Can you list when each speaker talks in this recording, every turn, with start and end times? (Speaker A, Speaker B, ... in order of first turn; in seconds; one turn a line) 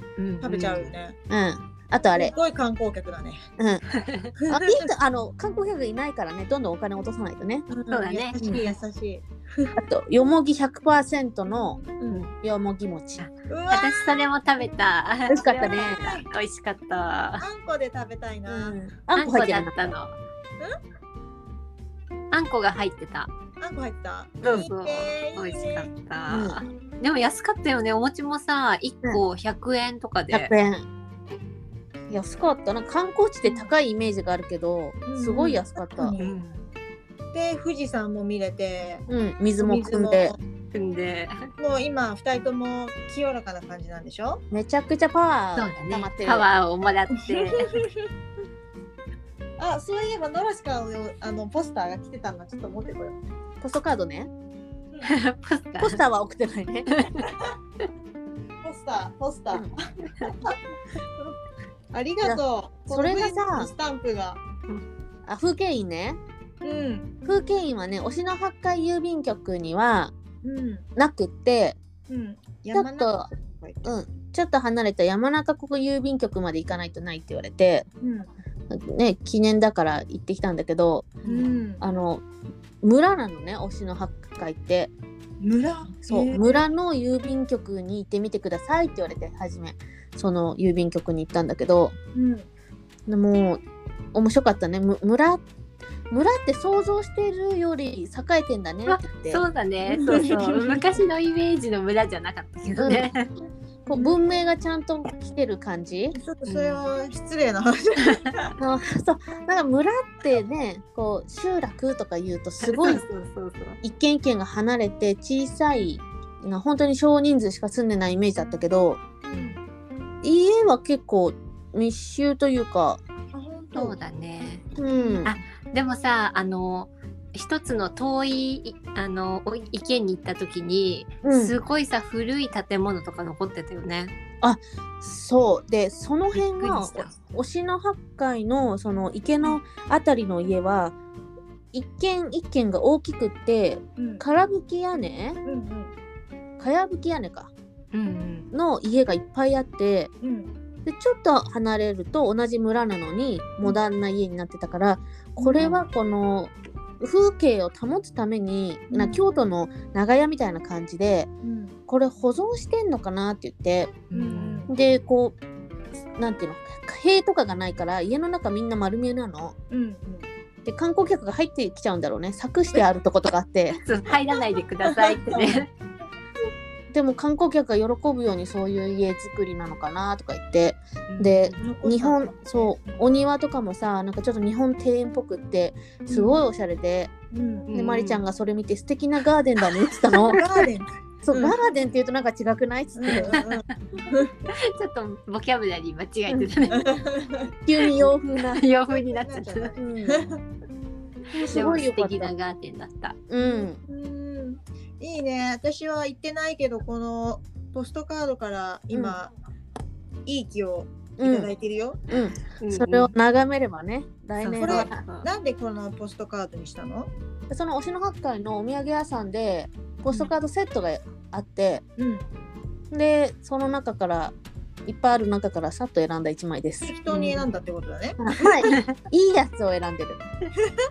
Speaker A: 0.2-0.9
Speaker B: 0.4-1.2
Speaker C: 1.3-2.3
Speaker B: 2.1-3.4
Speaker C: 3.6-3.8
Speaker A: 3.9-4.2
Speaker B: 4.4-4.9
Speaker C: 4.5-7.7
Speaker B: 7.7-9.8
Speaker A: 7.9-8.7
Speaker C: 8.4-8.7
Speaker C: 9.8-11.8
Speaker B: 11.9-12.2
Speaker C: 12.4-13.2
Speaker A: 13.2-17.4
Speaker B: 13.5-14.3
Speaker C: 15.3-16.1
Speaker B: 15.5-16.2
Speaker B: 17.4-18.9
Speaker C: 18.4-19.9
Speaker A: 19.1-20.2
Speaker A: 22.3-23.3
Speaker B: 23.6-25.9
Speaker A: 24.4-30.5
Speaker C: 26.3-26.6
Speaker C: 30.3-30.8
Speaker C: 32.1-36.1
Speaker B: 33.4-33.7
Speaker B: 35.0-36.4
Speaker A: 36.2-36.6
Speaker B: 37.3-40.4
Speaker C: 39.1-40.3
Speaker A: 40.7-41.3
Speaker B: 41.6-44.4
Speaker C: 44.5-46.5
Speaker A: 45.5-47.7
Speaker B: 47.1-48.1
Speaker B: 49.6-53.2
Speaker C: 53.6-54.3
Speaker A: 55.0-56.0
Speaker C: 55.8-56.9
Speaker A: 56.9-57.2
Speaker B: 58.6-60.5
Speaker B: 61.9-64.4
Speaker C: 62.2-63.7
Speaker C: 65.3-66.2
Speaker B: 66.6-67.1
Speaker C: 67.2-70.1
Speaker B: 70.4-70.9
Speaker C: 71.0-71.8
Speaker B: 72.1-73.9
Speaker C: 72.7-73.3
Speaker C: 73.8-77.9
Speaker B: 78.0-78.3
Speaker C: 78.7-82.2
Speaker B: 81.2-81.8
Speaker C: 82.8-84.9
Speaker B: 85.4-86.6
Speaker C: 86.0-91.9
Speaker B: 92.1-92.5
Speaker C: 93.1-93.6
Speaker C: 94.1-95.4
Speaker C: 96.1-99.4
Speaker A: 98.8-103.3
Speaker B: 99.9-100.8
Speaker C: 102.8-103.1
Speaker C: 103.8-106.2
Speaker B: 106.1-108.5
Speaker A: 106.5-106.9
Speaker C: 108.6-113.0
Speaker A: 112.6-113.8
Speaker C: 113.8-119.0
Speaker B: 119.2-119.6
Speaker A: 119.3-119.6
Speaker C: 120.2-123.0
Speaker B: 123.3-124.0
Speaker A: 123.7-124.6
Speaker C: 124.8-125.3
Speaker A: 125.2-134.1
Speaker C: 131.2-131.5
Speaker C: 134.4-140.9
Speaker A: 136.3-137.1
Speaker C: 141.7-145.4
Speaker B: 144.0-144.2
Speaker B: 145.4-145.9
Speaker C: 146.6-147.5
Speaker A: 147.9-148.5
Speaker C: 148.5-150.1
Speaker B: 150.2-150.5
Speaker C: 150.8-161.3
Speaker B: 155.4-155.8
Speaker B: 158.9-159.2
Speaker B: 161.4-161.8
Speaker C: 161.9-164.0
Speaker B: 164.1-164.7
Speaker A: 164.1-164.7
Speaker C: 164.7-165.4
Speaker C: 166.2-169.5
Speaker B: 169.7-170.3
Speaker C: 170.6-173.8
Speaker A: 173.8-175.7
Speaker B: 174.8-175.6
Speaker C: 176.9-187.1
Speaker B: 181.1-182.9
Speaker B: 186.1-186.4
Speaker B: 187.3-187.7
Speaker A: 187.7-188.2
Speaker C: 187.7-190.4
Speaker B: 190.3-191.6
Speaker C: 191.2-193.4
Speaker B: 192.9-194.3
Speaker A: 193.1-194.0
Speaker A: 194.7-196.9
Speaker B: 196.7-197.5
Speaker C: 197.7-198.6
Speaker A: 197.8-199.7
Speaker B: 198.9-200.4
Speaker C: 199.8-200.3
Speaker C: 201.3-202.3
Speaker A: 201.5-203.2
Speaker C: 203.3-203.8
Speaker B: 203.4-209.3
Speaker C: 208.9-209.2
Speaker B: 210.2-212.1
Speaker C: 211.2-211.5
Speaker C: 212.1-215.0
Speaker A: 212.4-213.1
Speaker A: 214.4-215.3
Speaker B: 214.6-217.1
Speaker C: 217.5-221.8
Speaker B: 222.0-222.2
Speaker C: 222.9-224.3
Speaker C: 224.8-226.9
Speaker B: 226.8-228.6
Speaker A: 227.1-227.5
Speaker C: 228.2-230.2
Speaker A: 228.6-228.9